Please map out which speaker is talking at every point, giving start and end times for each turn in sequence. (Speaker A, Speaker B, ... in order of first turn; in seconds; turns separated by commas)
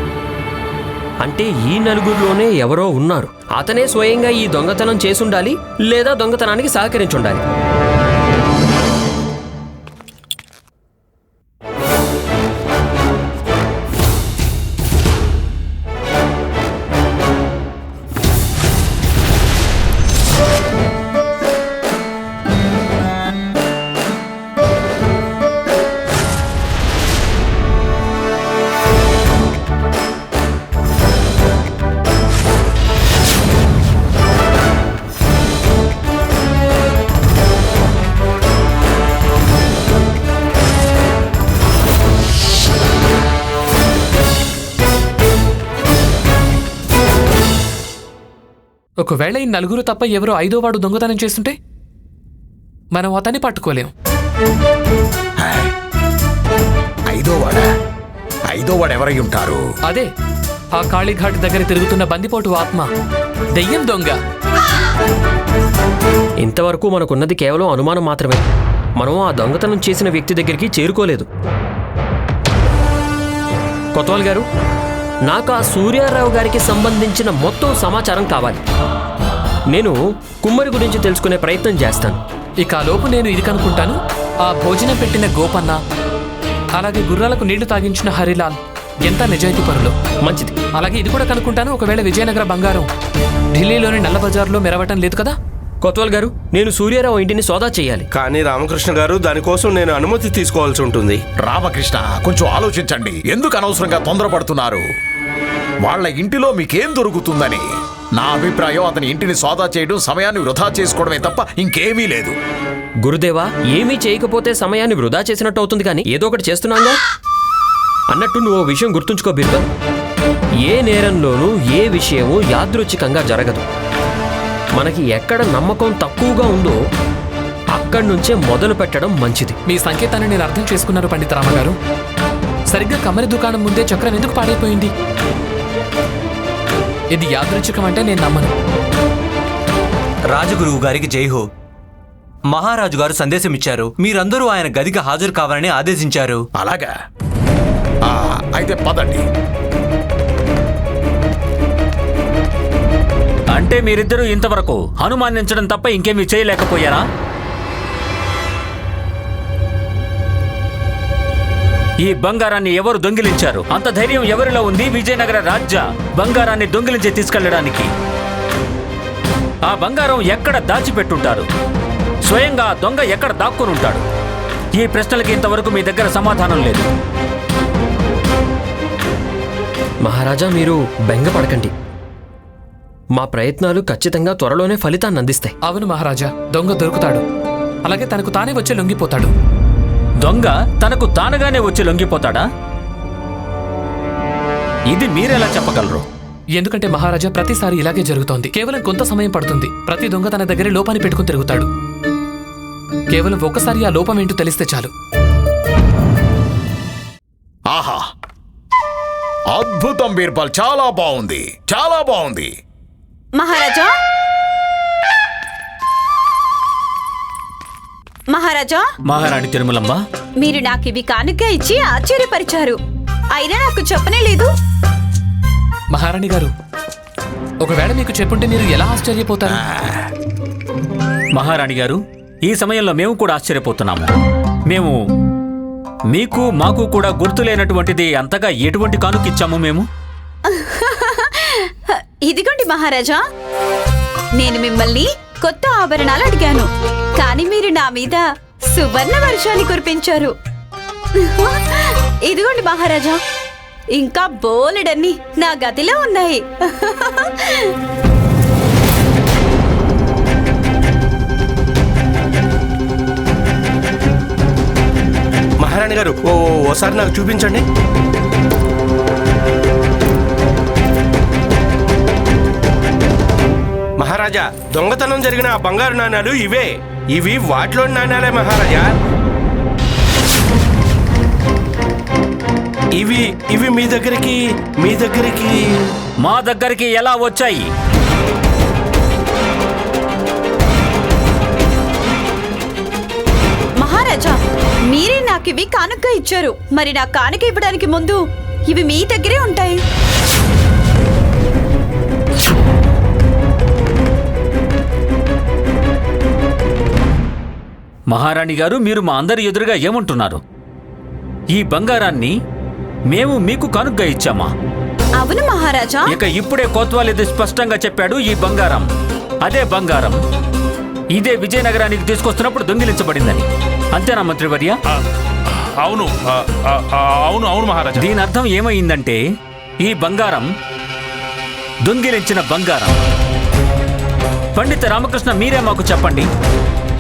Speaker A: 1.2-7.4, Speaker B: 49.0-51.5, Speaker B: 52.9-53.9, Speaker C: 55.4-55.7, Speaker C: 57.1-57.7, Speaker C: 58.5-59.6, Speaker B: 60.7-62.9, Speaker B: 63.6-64.2, Speaker A: 66.4-68.4, Speaker A: 69.0-71.3, Speaker A: 74.0-74.5, Speaker A: 75.3-78.6, Speaker A: 79.7-82.2, Speaker B: 82.6-85.8, Speaker B: 86.8-89.9, Speaker A: 90.2-90.6, Speaker B: 90.8-92.9, Speaker B: 93.5-95.4, Speaker A: 95.8-98.1, Speaker D: 98.1-101.2, Speaker C: 101.4-104.8, Speaker C: 105.8-112.4, Speaker A: 113.0-117.0, Speaker A: 118.1-119.7, Speaker A: 120.7-123.7, Speaker A: 124.8-126.8, Speaker A: 127.7-129.6, Speaker B: 129.7-131.8, Speaker B: 132.7-134.9, Speaker B: 137.1-138.5, Speaker E: 140.3-141.5, Speaker E: 142.5-146.5, Speaker C: 146.6-146.9, Speaker C: 148.0-149.2, Speaker F: 153.5-157.0, Speaker F: 162.0-167.9, Speaker F: 169.7-171.5, Speaker F: 172.3-174.0, Speaker F: 174.7-176.9, Speaker A: 180.0-181.7, Speaker A: 183.1-185.5, Speaker B: 185.7-187.2, Speaker B: 187.8-189.3, Speaker F: 190.2-192.4, Speaker F: 194.9-196.1, Speaker B: 196.6-201.7, Speaker B: 203.1-204.9, Speaker C: 207.7-208.0, Speaker C: 209.5-212.5, Speaker G: 213.3-213.9, Speaker G: 218.3-218.9, Speaker F: 219.1-220.0, Speaker G: 220.4-222.8, Speaker G: 223.3-224.5, Speaker B: 225.9-226.5, Speaker B: 227.6-229.6, Speaker C: 229.5-230.1, Speaker F: 231.3-234.1, Speaker F: 234.7-235.0, Speaker F: 236.1-239.9, Speaker G: 240.5-243.2, Speaker G: 244.3-250.3, Speaker G: 251.2-253.2, Speaker G: 253.9-257.7, Speaker D: 265.6-267.6, Speaker D: 274.0-278.9, Speaker D: 283.0-285.5, Speaker F: 286.2-287.7, Speaker G: 293.8-299.8, Speaker F: 308.1-310.4, Speaker F: 311.5-312.3, Speaker F: 313.1-314.5, Speaker G: 315.2-316.2, Speaker F: 316.1-318.9, Speaker F: 319.4-320.2, Speaker F: 321.1-324.8, Speaker H: 325.8-328.1, Speaker F: 327.9-329.2, Speaker F: 329.8-330.5, Speaker F: 331.9-333.0, Speaker F: 334.6-336.3